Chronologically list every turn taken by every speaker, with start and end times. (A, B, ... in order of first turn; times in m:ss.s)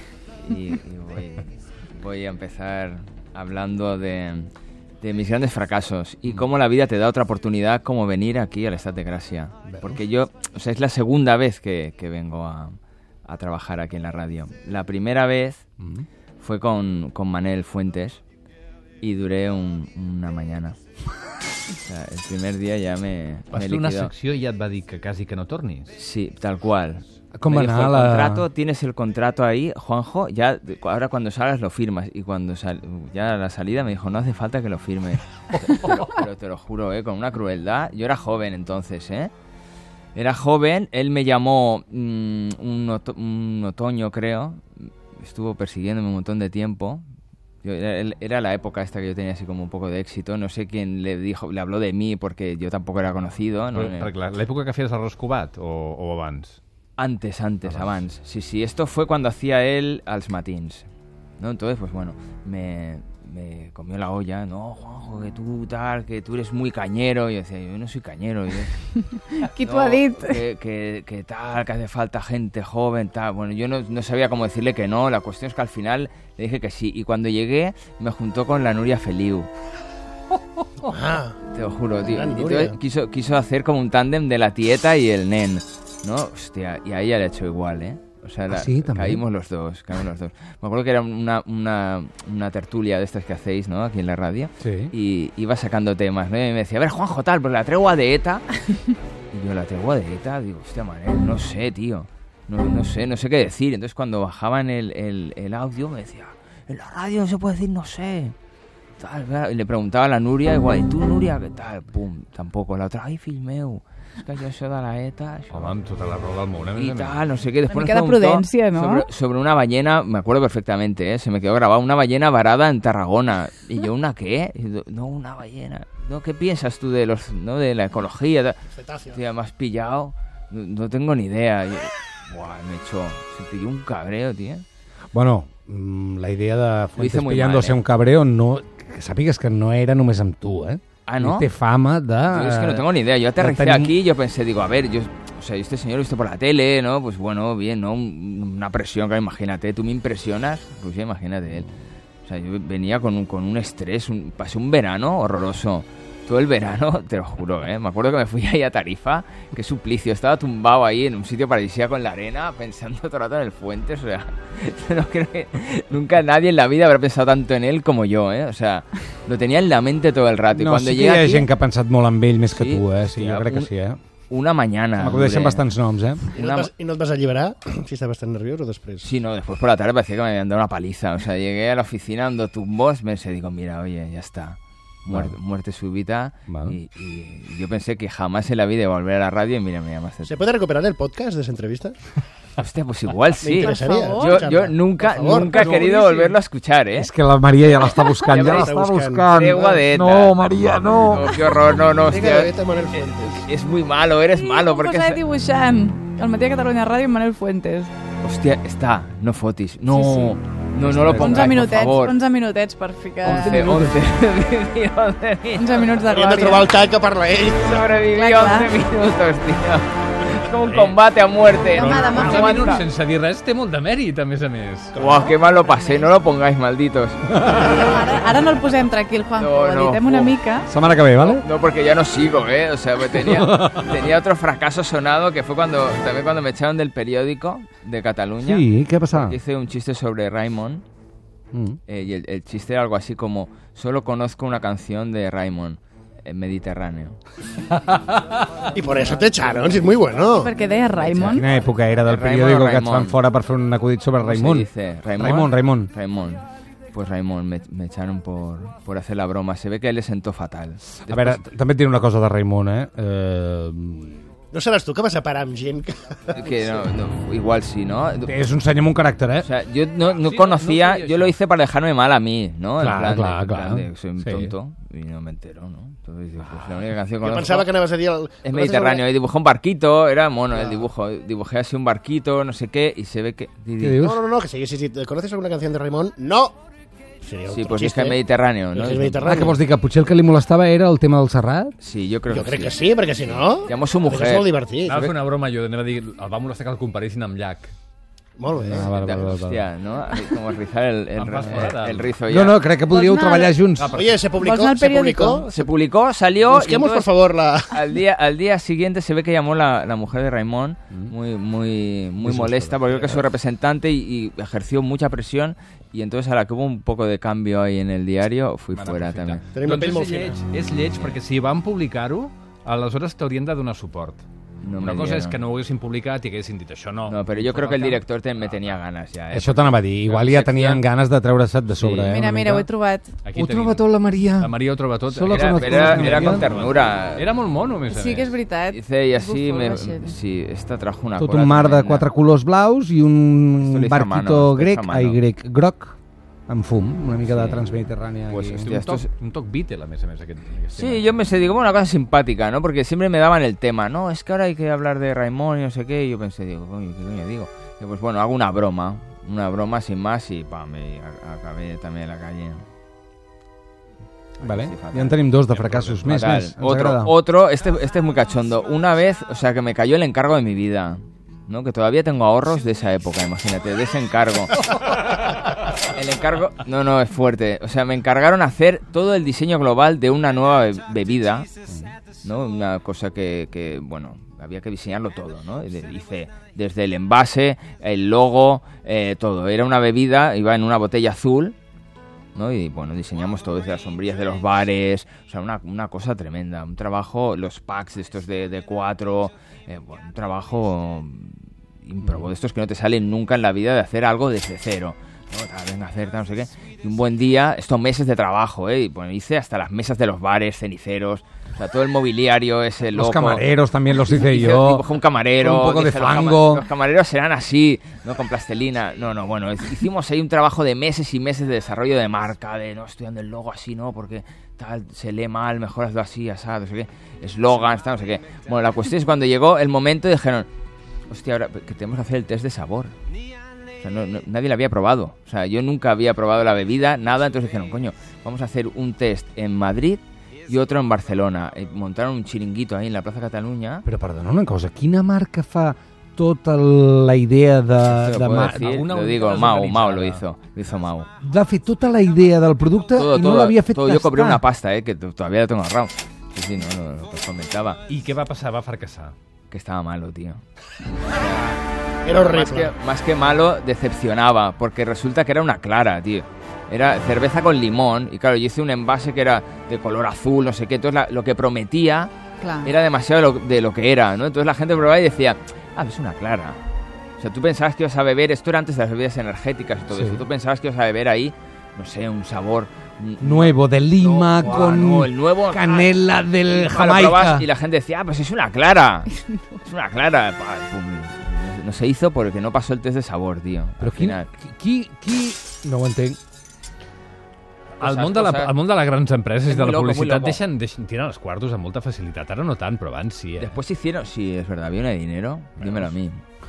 0:00.4-0:04.5 A
0:05.0-0:15.6 A
0:09.6-0:10.0 B
0:15.8-0:16.0 B
0:16.4-0:18.2 A
0:19.0-0:20.8 A
0:21.8-0:24.1 A
0:23.5-0:25.9 C
0:26.0-0:39.3 A
0:27.3-0:28.5 B
0:40.1-0:47.0 A
0:47.6-0:54.1 A
0:53.7-0:56.6 C
0:57.0-1:00.9 A
0:57.6-0:57.9 C
1:01.4-1:08.7 A
1:09.1-1:10.4 D
1:09.6-1:19.5 A
1:20.8-1:21.4 E
1:21.5-1:38.5 A
1:22.0-1:22.8 E
1:28.5-1:29.2 B
1:34.6-1:34.9 B
1:39.3-1:48.3 A
1:49.0-1:55.7 A
1:55.5-1:57.2 C
1:56.7-2:14.6 A
1:57.7-1:59.1 D
2:08.7-2:09.2 E
2:15.1-2:22.8 B
2:17.0-2:17.8 A
2:21.0-2:21.5 A
2:22.3-2:31.7 A
2:23.4-2:23.9 B
2:32.2-2:51.5 A
2:50.5-2:54.0 B
2:52.5-2:53.7 A
2:54.3-2:55.6 A
2:55.0-2:56.3 B
2:56.3-2:56.7 A
2:56.3-2:59.1 E
2:59.0-3:10.4 A
3:05.1-3:05.3 B
3:06.5-3:06.8 B
3:10.2-3:12.0 E
3:12.6-3:17.1 A
3:13.4-3:15.8 E
3:13.6-3:14.5 D
3:15.6-3:16.3 B
3:17.0-3:21.6 B
3:17.8-3:18.7 A
3:18.3-3:19.7 E
3:19.3-3:25.2 A
3:22.0-3:23.4 E
3:24.3-3:27.9 D
3:28.2-3:32.2 A
3:29.9-3:30.4 D
3:30.8-3:31.6 B
3:31.0-3:33.6 D
3:33.2-3:35.9 A
3:33.2-3:34.0 B
3:35.6-3:36.7 D
3:36.1-3:37.9 E
3:37.5-3:42.8 A
3:38.1-3:38.7 D
3:40.6-3:41.0 C
3:41.7-3:42.7 D
3:41.7-3:44.9 C
3:44.9-3:47.9 A
3:44.9-3:45.2 E
3:47.4-3:47.7 B
3:47.5-3:50.7 D
3:49.4-3:50.4 A
3:50.7-3:51.4 B
3:51.0-4:00.8 A
3:58.4-3:59.4 B
4:01.5-4:01.8 B
4:01.9-4:07.2 A
4:07.7-4:08.2 C
4:08.7-4:10.6 E
4:10.3-4:11.4 D
4:10.9-4:11.4 A
4:11.1-4:15.9 B
4:12.0-4:13.2 A
4:14.2-4:21.4 A
4:21.1-4:24.2 B
4:24.5-4:26.8 E
4:26.3-4:28.3 A
4:28.2-4:29.5 B
4:29.4-4:37.7 A
4:30.0-4:31.4 C
4:32.8-4:34.5 B
4:36.4-4:36.9 C
4:37.2-4:39.0 E
4:38.4-4:44.0 A
4:43.8-4:44.2 B
4:44.0-4:46.6 E
4:47.2-4:48.2 E
4:47.5-4:49.6 A
4:48.7-4:49.5 E
4:49.2-4:51.8 B
4:51.8-4:55.1 A
4:52.3-4:55.0 E
4:54.8-4:57.7 C
4:58.4-4:59.3 E
4:58.5-4:59.7 B
4:58.9-5:02.7 A
5:01.2-5:02.2 C
5:02.3-5:04.0 B
5:02.9-5:03.5 D
5:03.8-5:04.2 C
5:03.9-5:05.7 E
5:04.4-5:05.4 D
5:05.5-5:07.1 A
5:06.5-5:07.8 E
5:07.7-5:19.4 A
5:12.2-5:13.2 B
5:18.7-5:24.2 C
5:19.5-5:20.3 E
5:24.6-5:25.4 A
5:24.8-5:28.8 C
5:27.1-5:29.8 A
5:29.3-5:32.7 B
5:30.1-5:30.8 C
5:31.8-5:32.2 A
5:32.1-5:33.1 D
5:33.2-5:38.3 C
5:33.4-5:34.5 B
5:35.1-5:36.4 B
5:35.2-5:37.3 A
5:37.9-5:40.2 D
5:38.7-5:42.1 A
5:41.2-5:46.0 B
5:43.6-5:45.2 A
5:46.5-5:48.6 B
5:47.2-5:47.6 A
5:48.3-5:49.1 A
5:48.5-5:51.1 C
5:50.8-6:02.6 A
6:04.4-6:14.7 A
6:04.4-6:07.1 B
6:15.8-6:21.5 A
6:22.2-6:31.6 A
6:32.3-6:53.4 A
6:52.9-6:56.7 B
6:54.0-7:10.5 A
7:11.1-7:12.9 A
7:13.8-7:23.8 A
7:23.8-7:28.7 B
7:27.8-7:31.1 A
7:28.4-7:30.2 C
7:31.2-7:34.4 B
7:32.9-7:37.8 A
7:37.9-7:39.1 C
7:39.5-7:40.4 A
7:41.0-7:56.6 A
7:42.0-7:42.7 E
7:52.4-7:52.7 D
7:57.2-8:05.9 A
7:59.9-8:00.2 B
8:03.2-8:07.5 B
8:06.5-8:14.3 A
8:13.8-8:16.2 B
8:17.8-8:18.5 A
8:17.8-8:23.6 C
8:19.5-8:20.4 A
8:23.4-8:26.2 A